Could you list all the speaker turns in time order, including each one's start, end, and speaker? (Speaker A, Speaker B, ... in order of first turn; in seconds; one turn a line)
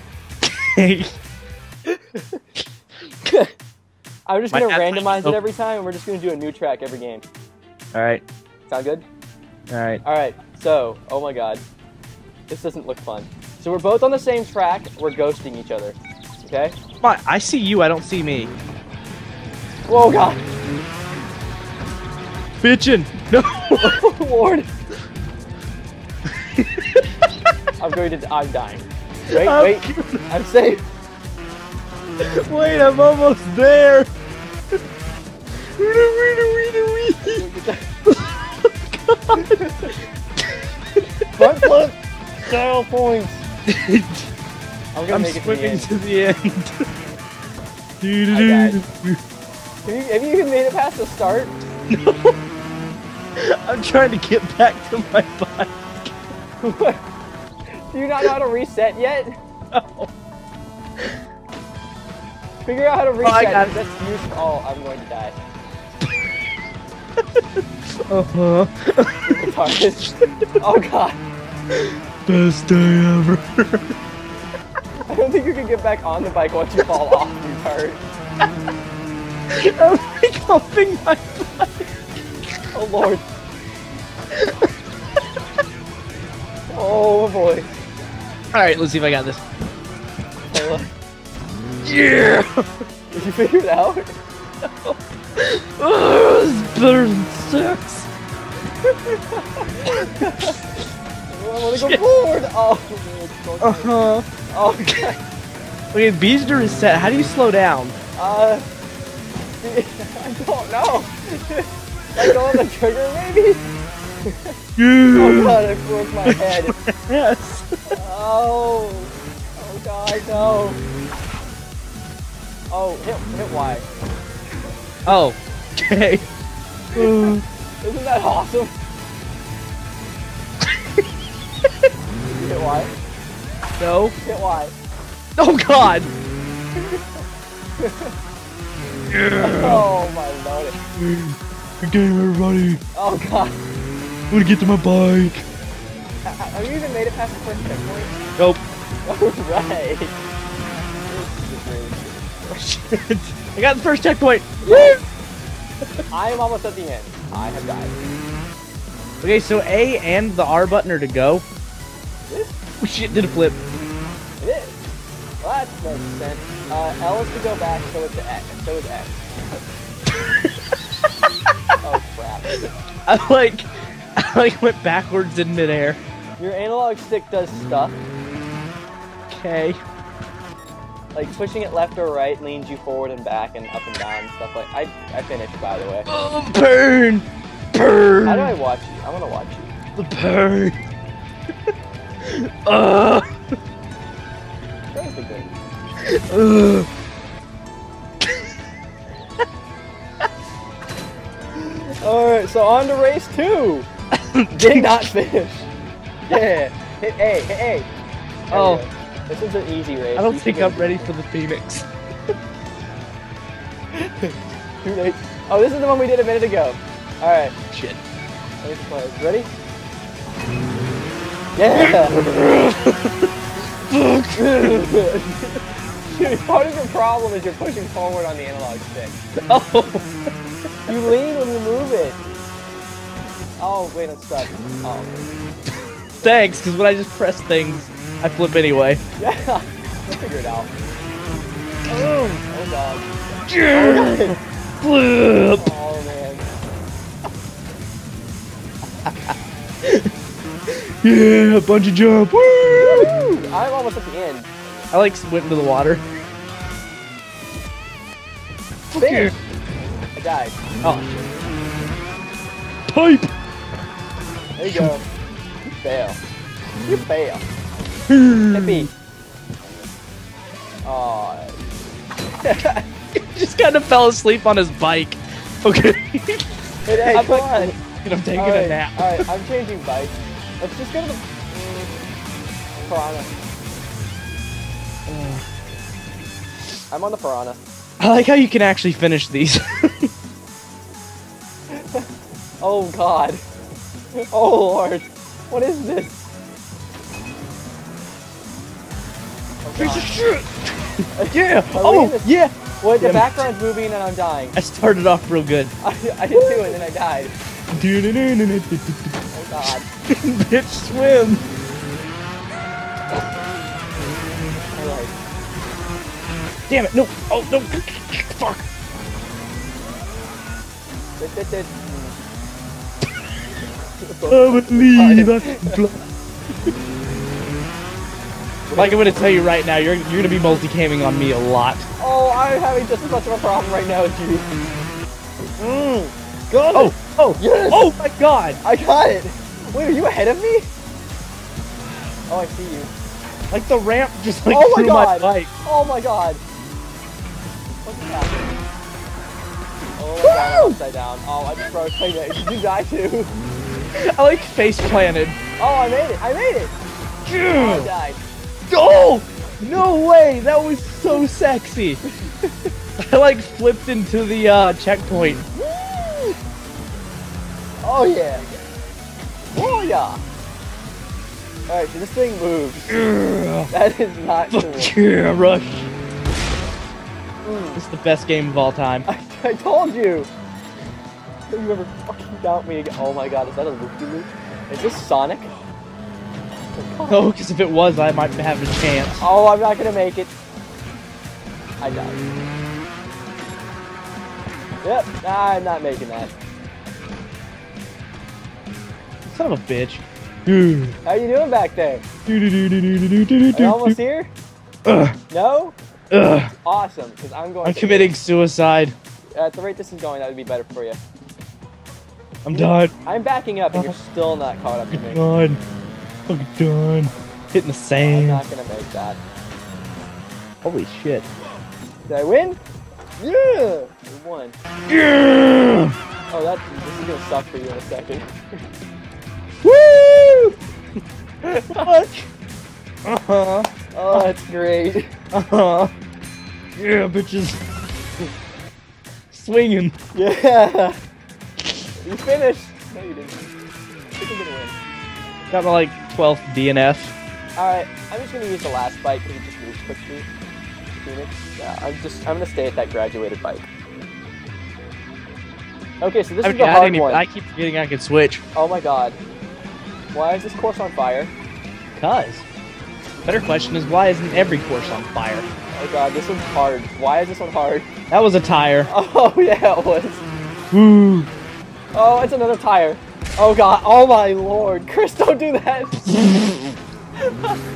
Speaker A: 0.4-1.1
Speaker B: 3.3-3.5
Speaker B: 4.3-7.2
Speaker A: 4.5-5.4
Speaker A: 7.9-8.2
Speaker B: 8.7-9.1
Speaker A: 9.7-10.0
Speaker B: 10.0-11.6
Speaker B: 12.5-16.8
Speaker A: 17.0-18.5
Speaker B: 19.9-20.5
Speaker A: 22.6-24.0
Speaker B: 23.7-24.7
Speaker A: 26.5-27.3
Speaker B: 27.8-30.8
Speaker A: 29.3-30.2
Speaker A: 32.2-34.1
Speaker A: 35.8-37.4
Speaker B: 37.3-37.9
Speaker A: 38.1-41.7
Speaker B: 39.3-39.9
Speaker B: 41.4-43.4
Speaker A: 43.7-44.3
Speaker B: 44.9-45.9
Speaker A: 45.1-46.9
Speaker A: 48.0-49.2
Speaker B: 48.3-48.8
Speaker B: 49.9-51.5
Speaker A: 51.9-52.3
Speaker A: 53.4-56.1
Speaker B: 56.6-57.0
Speaker B: 57.9-59.3
Speaker A: 59.7-60.1
Speaker B: 62.6-65.3
Speaker A: 63.2-63.7
Speaker A: 67.2-70.3
Speaker B: 69.2-70.1
Speaker B: 70.6-71.2
Speaker A: 71.7-73.9
Speaker B: 75.1-78.0
Speaker A: 79.5-81.9
Speaker B: 82.7-83.2
Speaker A: 84.3-84.7
Speaker B: 86.7-87.7
Speaker A: 88.5-89.4
Speaker B: 90.5-90.9
Speaker A: 91.8-92.7
Speaker B: 93.1-94.1
Speaker A: 94.6-98.1
Speaker B: 98.9-100.6
Speaker A: 99.9-100.6
Speaker B: 101.3-104.0
Speaker A: 101.7-102.0
Speaker A: 103.6-104.3
Speaker B: 104.5-105.2
Speaker A: 105.9-108.0
Speaker B: 108.2-108.6
Speaker B: 109.6-113.6
Speaker A: 112.3-112.5
Speaker B: 114.2-114.5
Speaker A: 114.8-115.6
Speaker B: 115.1-116.8
Speaker A: 116.3-117.7
Speaker B: 118.0-120.8
Speaker B: 122.7-123.9
Speaker A: 125.1-126.2
Speaker B: 127.0-128.7
Speaker A: 127.0-127.4
Speaker B: 132.3-132.9
Speaker A: 133.8-134.2
Speaker B: 134.2-134.7
Speaker A: 135.4-136.1
Speaker B: 137.8-138.1
Speaker A: 139.1-139.9
Speaker B: 139.4-140.8
Speaker A: 141.0-142.8
Speaker B: 142.9-143.6
Speaker A: 144.3-145.4
Speaker B: 146.3-148.2
Speaker B: 149.1-150.2
Speaker B: 151.1-152.6
Speaker A: 152.5-155.0
Speaker B: 154.6-155.0
Speaker B: 156.1-158.0
Speaker A: 159.2-161.4
Speaker B: 162.3-162.6
Speaker A: 162.8-163.6
Speaker B: 164.4-164.8
Speaker B: 165.4-169.2
Speaker B: 171.8-172.6
Speaker A: 173.1-176.0
Speaker B: 176.4-178.0
Speaker A: 179.3-179.8
Speaker B: 181.1-186.1
Speaker A: 186.1-188.5
Speaker B: 188.2-189.7
Speaker A: 190.0-190.8
Speaker A: 192.2-193.2
Speaker B: 194.9-195.5
Speaker A: 196.1-196.9
Speaker B: 202.0-203.9
Speaker A: 204.3-205.1
Speaker B: 204.5-205.7
Speaker B: 206.3-207.9
Speaker B: 208.5-211.1
Speaker A: 208.5-208.8
Speaker A: 210.2-211.9
Speaker B: 213.9-217.6
Speaker A: 217.7-218.0
Speaker B: 218.6-219.5
Speaker B: 221.6-222.2
Speaker A: 221.8-223.3
Speaker A: 223.9-224.8
Speaker B: 224.4-229.2
Speaker A: 229.5-230.1
Speaker B: 230.9-232.2
Speaker B: 233.6-235.3
Speaker A: 236.2-239.0
Speaker B: 239.2-240.7
Speaker B: 241.9-243.1
Speaker A: 243.5-245.7
Speaker B: 243.7-244.4
Speaker B: 245.6-246.5
Speaker A: 249.1-249.3
Speaker A: 249.8-250.1
Speaker A: 250.7-253.1
Speaker B: 252.8-254.6
Speaker A: 254.9-256.0
Speaker A: 258.9-259.3
Speaker B: 259.0-259.3
Speaker B: 260.2-260.6
Speaker A: 260.8-261.2
Speaker A: 262.9-263.3
Speaker B: 264.6-265.1
Speaker B: 265.8-266.2
Speaker B: 266.8-267.5
Speaker A: 268.1-268.9
Speaker B: 268.5-268.9
Speaker B: 270.9-271.6
Speaker B: 272.4-272.8
Speaker A: 273.1-279.3
Speaker B: 276.9-277.8
Speaker B: 278.4-282.0
Speaker B: 282.9-283.3
Speaker A: 285.1-285.4
Speaker B: 286.9-287.6
Speaker A: 288.0-290.1
Speaker B: 291.7-292.1
Speaker B: 292.6-293.4
Speaker B: 294.3-296.2
Speaker B: 299.6-300.2
Speaker A: 299.8-303.4
Speaker B: 301.2-304.6
Speaker A: 304.6-305.7
Speaker B: 305.8-307.3
Speaker A: 306.3-306.8
Speaker A: 307.7-309.2
Speaker B: 309.3-309.9
Speaker A: 310.1-311.4
Speaker B: 314.7-315.1
Speaker A: 316.7-318.6
Speaker B: 321.2-322.2
Speaker B: 324.0-325.8
Speaker A: 324.3-326.0
Speaker B: 328.7-329.2
Speaker A: 328.8-331.9
Speaker B: 332.0-334.5
Speaker B: 335.6-338.0
Speaker A: 336.7-338.6
Speaker B: 338.6-340.7
Speaker B: 342.3-342.9
Speaker A: 343.5-345.5
Speaker B: 344.5-346.4
Speaker B: 347.8-348.6
Speaker B: 350.0-353.3
Speaker A: 350.2-350.8
Speaker A: 354.0-355.4
Speaker B: 355.6-356.7
Speaker A: 357.3-357.9
Speaker B: 357.5-358.2
Speaker A: 358.7-362.0
Speaker B: 362.1-362.7
Speaker A: 363.0-365.4
Speaker B: 365.6-366.4
Speaker B: 367.8-368.5
Speaker B: 369.5-370.2
Speaker B: 371.7-373.0
Speaker A: 372.9-373.7
Speaker B: 373.7-374.9
Speaker A: 374.5-375.9
Speaker B: 377.4-377.8
Speaker A: 377.8-379.1
Speaker B: 379.1-380.3
Speaker B: 381.5-385.5
Speaker B: 386.7-387.3
Speaker A: 387.1-389.2
Speaker B: 389.2-390.3
Speaker B: 391.8-392.2
Speaker B: 394.8-396.3
Speaker A: 399.3-401.0
Speaker B: 401.1-402.0
Speaker A: 402.3-404.0
Speaker B: 403.5-404.3
Speaker A: 404.9-405.2
Speaker B: 405.3-405.8
Speaker A: 406.1-406.5
Speaker B: 406.6-408.1
Speaker A: 407.6-408.9
Speaker B: 409.4-411.0
Speaker A: 412.4-412.9
Speaker B: 412.5-415.2
Speaker A: 414.9-415.6
Speaker A: 416.3-418.4
Speaker B: 418.0-419.2
Speaker A: 420.6-421.2
Speaker B: 422.1-422.6
Speaker B: 423.2-424.6
Speaker A: 424.9-425.9
Speaker B: 426.3-428.3
Speaker A: 429.6-430.6
Speaker B: 431.5-431.9
Speaker A: 431.7-432.3
Speaker A: 433.1-434.3
Speaker B: 433.9-435.1
Speaker A: 435.3-435.9
Speaker A: 436.8-437.6
Speaker A: 439.3-439.9
Speaker B: 440.1-441.0
Speaker B: 442.0-443.5
Speaker B: 444.2-444.8
Speaker A: 445.5-447.1
Speaker B: 447.6-450.3
Speaker B: 451.0-453.7
Speaker B: 456.0-457.2
Speaker A: 456.4-458.4
Speaker B: 458.6-459.2
Speaker B: 460.1-461.3
Speaker A: 462.0-462.4
Speaker A: 463.2-465.5
Speaker B: 465.7-467.9
Speaker A: 468.1-468.9
Speaker B: 468.9-470.2
Speaker A: 470.7-471.3
Speaker B: 471.9-476.5